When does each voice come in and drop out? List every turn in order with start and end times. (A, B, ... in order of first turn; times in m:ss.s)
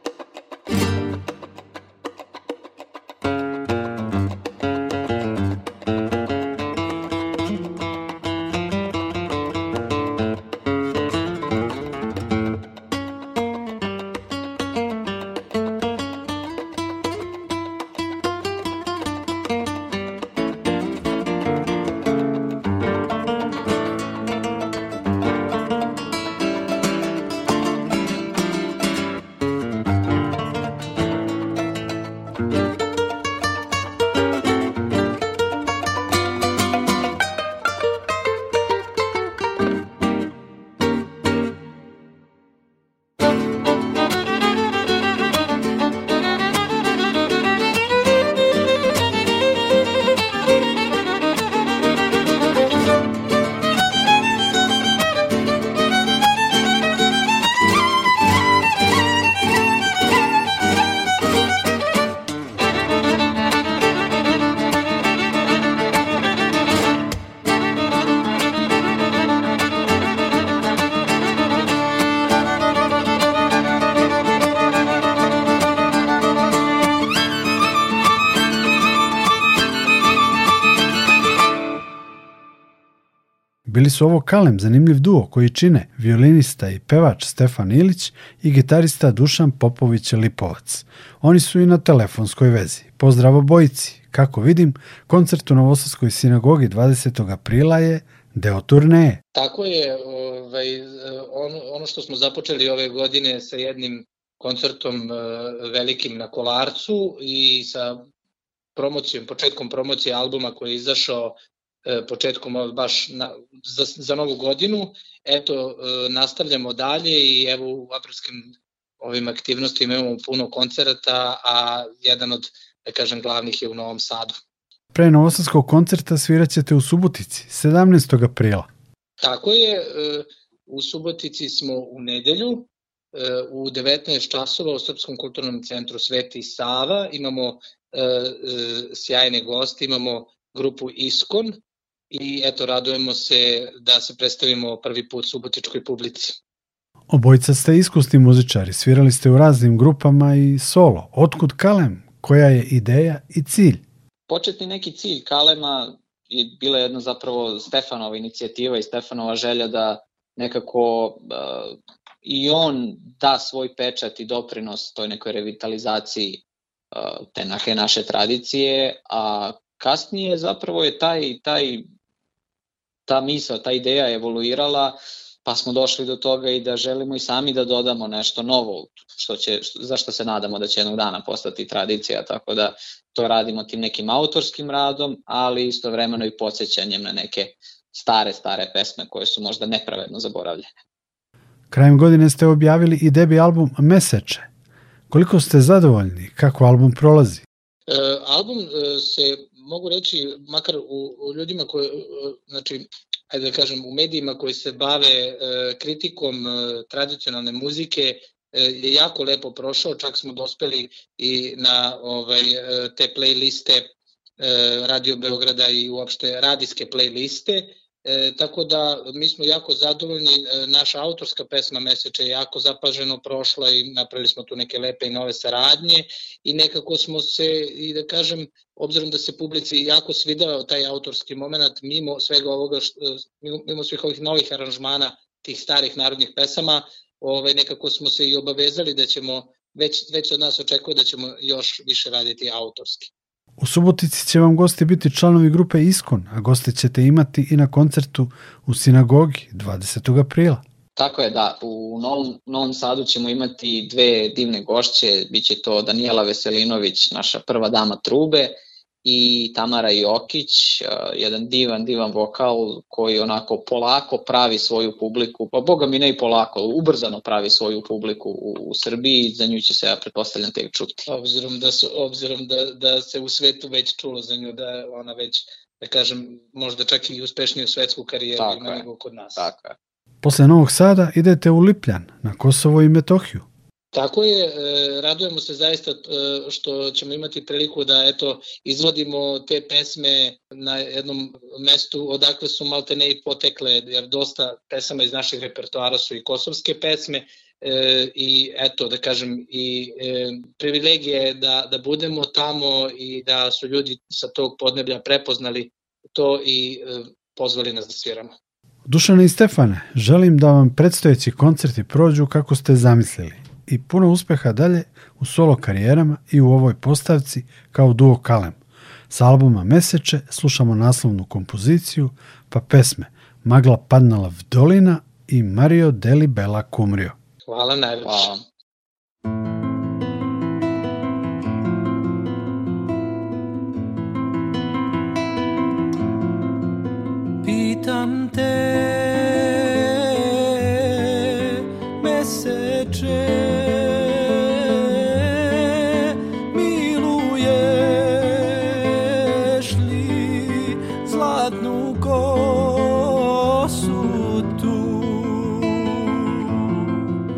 1:23.6-1:39.2 A
1:39.3-1:48.0 B
1:48.8-1:51.3 B
1:51.8-2:04.4 B
2:04.9-2:08.7 A
2:09.2-2:21.6 B
2:22.1-2:26.4 B
2:27.1-2:33.8 A
2:34.3-2:51.9 C
2:53.1-3:10.7 C
3:11.7-3:14.5 A
3:15.1-3:17.4 A
3:17.9-3:33.9 B
3:34.4-4:03.1 B
4:03.6-4:10.6 A
4:11.0-4:31.1 C
4:31.1-4:39.5 B
4:38.4-4:38.8 C
4:39.4-4:39.8 C
4:40.2-4:43.4 A
4:43.9-5:08.3 B
5:08.8-5:18.6 A
5:19.1-5:27.2 A
5:27.4-5:28.4 B
5:28.1-5:28.3 C
5:37.4-5:57.0 D